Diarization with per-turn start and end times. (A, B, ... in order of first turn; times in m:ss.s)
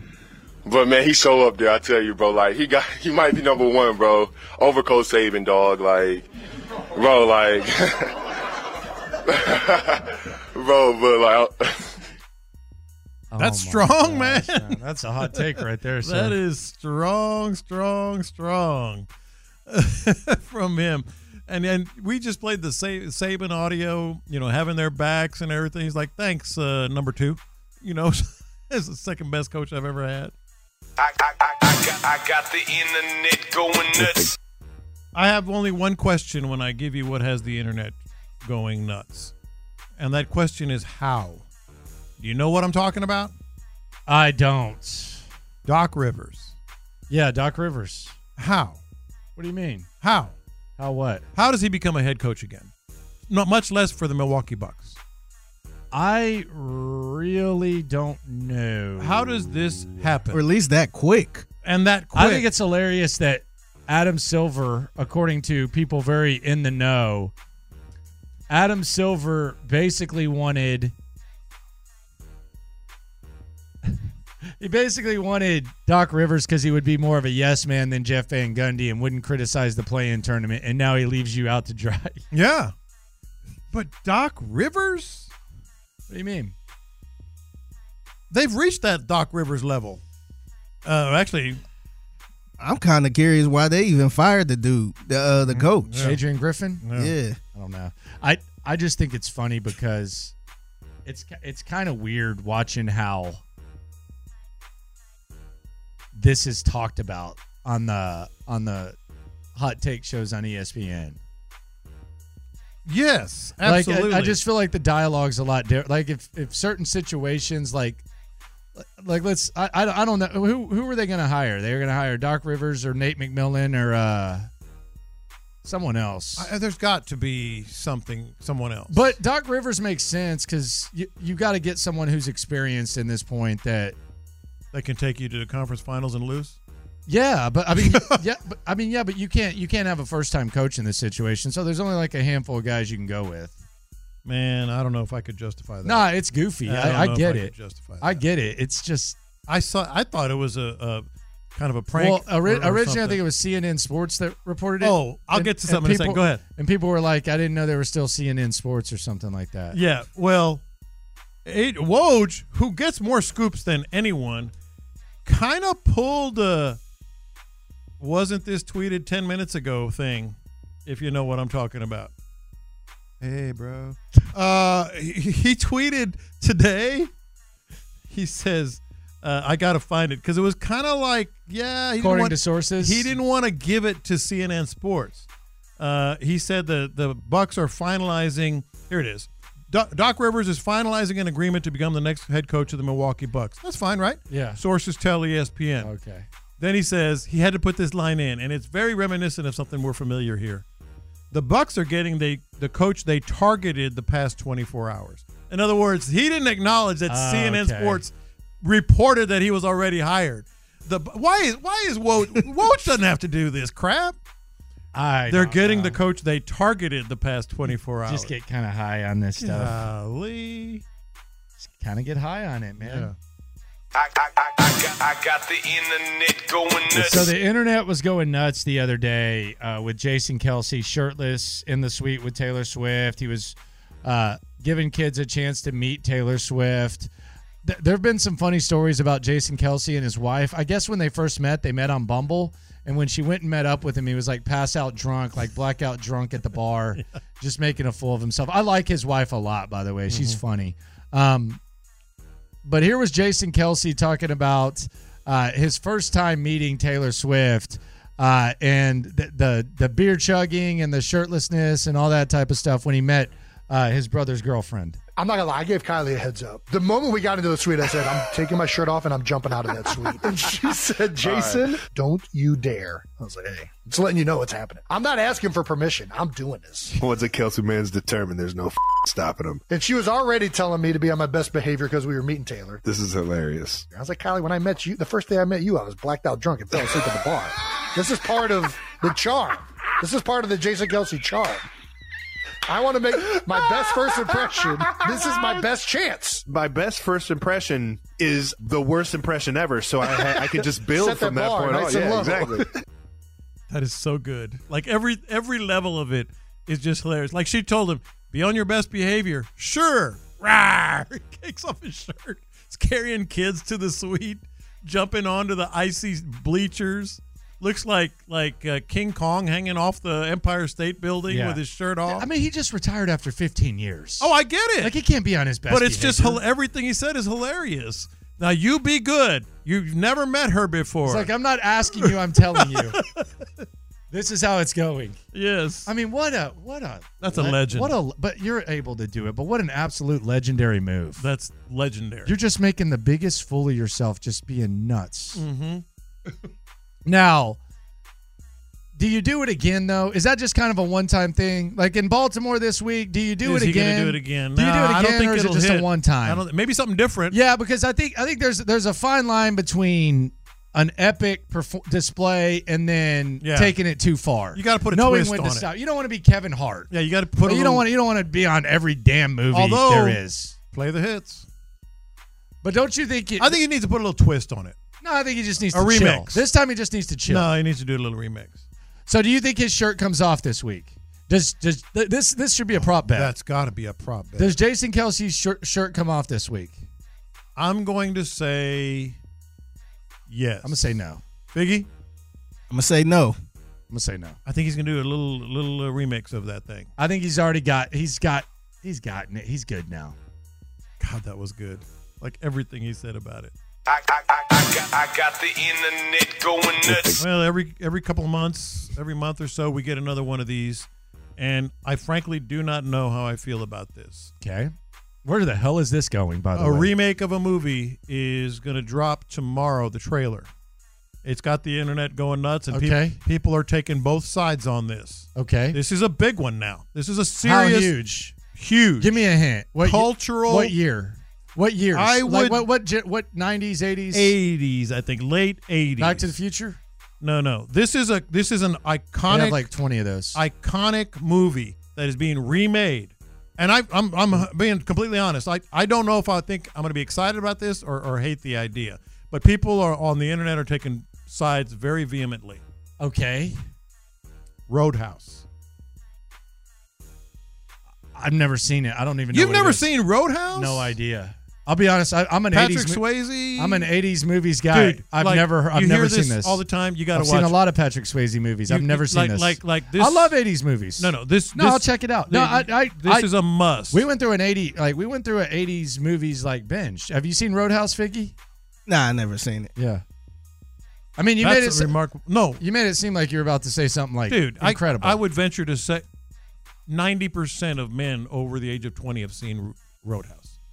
0:00.6-0:06.3 A
0:06.9-0:08.2 A
0:09.3-0:12.0 A
0:13.3-0:16.4 B
0:13.4-0:14.8 C
0:15.3-0:19.1 C
0:19.7-0:30.3 C
0:31.0-0:34.3 D
0:35.2-0:39.3 C
0:40.0-0:41.4 C
0:42.2-0:43.3 C
0:44.1-0:45.2 B
0:45.7-0:46.6 C
0:47.1-0:48.2 B
0:48.4-0:48.8 C
0:49.4-0:49.9 B
0:50.0-0:50.4 C
0:50.8-0:51.2 B
0:51.4-0:52.7 C
0:53.3-0:55.0 C
0:55.9-1:00.0 B
0:59.0-1:00.4 C
1:00.3-1:01.5 E
1:01.6-1:02.5 C
1:02.2-1:07.3 B
1:08.5-1:10.9 B
1:14.6-1:22.2 B
1:22.3-1:22.7 C
1:23.7-1:25.3 C
1:26.1-1:26.5 B
1:28.3-1:30.0 C
1:30.8-1:31.6 C
1:32.6-1:36.0 E
1:35.5-1:36.2 C
1:36.0-1:36.8 B
1:36.8-1:37.1 C
1:37.0-1:37.4 E
1:37.6-1:40.3 B
1:41.1-1:43.4 B
1:46.1-1:49.0 B
1:49.6-1:51.2 B
1:52.9-1:54.4 C
1:53.6-1:58.0 B
1:58.8-2:04.5 B
2:05.6-2:06.5 B
2:06.4-2:09.2 C
2:08.9-2:14.0 B
2:14.7-2:16.6 C
2:17.1-2:23.6 B
2:17.8-2:18.2 C
2:24.2-2:26.1 C
2:25.8-2:29.2 B
2:26.6-2:28.2 C
2:29.5-2:33.2 C
2:31.9-2:39.8 B
2:34.8-2:36.4 C
2:39.7-2:40.6 C
2:41.4-2:44.5 C
2:45.2-2:46.8 C
2:48.0-2:52.1 C
2:53.2-2:57.1 C
2:58.1-3:05.3 C
3:02.0-3:03.1 B
3:05.8-3:15.9 C
3:14.3-3:14.6 B
3:15.8-3:16.3 B
3:16.6-3:20.6 C
3:21.3-3:34.2 C
3:27.1-3:28.0 B
3:32.4-3:32.9 B
3:34.9-3:36.0 B
3:35.3-3:38.3 C
3:38.1-3:39.8 B
3:39.4-3:40.8 C
3:41.6-3:43.1 B
3:42.8-3:43.2 C
3:44.0-3:47.3 D
3:46.9-3:57.1 B
3:57.6-4:11.6 B
4:10.1-4:10.4 C
4:12.6-4:25.0 B
4:25.2-4:37.0 F
4:31.2-4:31.8 G
4:37.0-4:39.6 G
4:39.7-4:42.8 F
4:42.8-4:43.9 G
4:43.9-4:51.6 F
4:52.7-4:56.4 F
4:56.5-5:02.7 G
5:00.4-5:02.7 F
5:03.7-5:22.3 C
5:21.3-5:26.4 B
5:24.2-5:24.9 C
5:25.7-5:31.3 C
5:31.1-5:33.0 B
5:32.0-5:33.3 C
5:34.1-5:35.2 B
5:35.3-5:35.9 C
5:35.9-5:41.2 B
5:37.2-5:38.0 C
5:41.2-5:42.3 C
5:42.2-5:45.4 B
5:45.4-5:45.8 C
5:47.1-5:47.6 B
5:49.0-5:56.4 B
5:53.4-5:57.4 C
5:57.3-6:06.9 B
6:03.4-6:03.8 C
6:04.6-6:05.7 C
6:06.9-6:07.9 C
6:07.4-6:10.6 B
6:09.5-6:10.2 C
6:10.7-6:11.5 C
6:12.6-6:13.6 B
6:13.4-6:14.8 C
6:15.0-6:17.5 B
6:15.7-6:16.4 C
6:17.3-6:18.6 C
6:19.1-6:23.3 B
6:22.8-6:24.6 C
6:24.4-6:26.8 B
6:27.6-6:29.2 C
6:30.3-6:30.9 C
6:30.6-6:31.2 B
6:31.5-6:31.9 C
6:32.7-6:33.4 E
6:33.9-6:34.4 B
6:34.4-6:36.9 C
6:37.0-6:40.2 B
6:41.0-6:43.5 C
6:43.9-6:47.2 D
6:47.2-6:54.3 C
6:54.4-6:54.7 B
6:55.2-6:56.9 B
6:56.6-7:00.5 C
7:01.2-7:07.9 C
7:02.7-7:03.2 B
7:05.4-7:05.8 B
7:07.4-7:08.3 B
7:08.5-7:10.7 C
7:09.0-7:14.3 B
7:12.0-7:12.7 C
7:14.1-7:16.3 C
7:16.0-7:16.8 B
7:17.2-7:19.7 C
7:19.3-7:20.4 B
7:20.3-7:32.6 C
7:33.0-7:33.6 B
7:34.7-7:35.4 C
7:38.1-7:39.9 B
7:39.3-7:41.0 C
7:40.5-7:43.0 B
7:42.5-7:43.9 C
7:43.6-7:46.6 B
7:44.7-7:47.6 C
7:47.1-7:53.3 B
7:48.7-7:50.4 C
7:51.0-7:54.1 C
7:53.9-7:58.3 B
7:58.9-7:59.7 E
7:59.8-8:00.0 B
8:01.2-8:01.9 B
8:01.4-8:02.6 C
8:02.6-8:05.2 B
8:04.3-8:06.0 C
8:06.9-8:10.6 C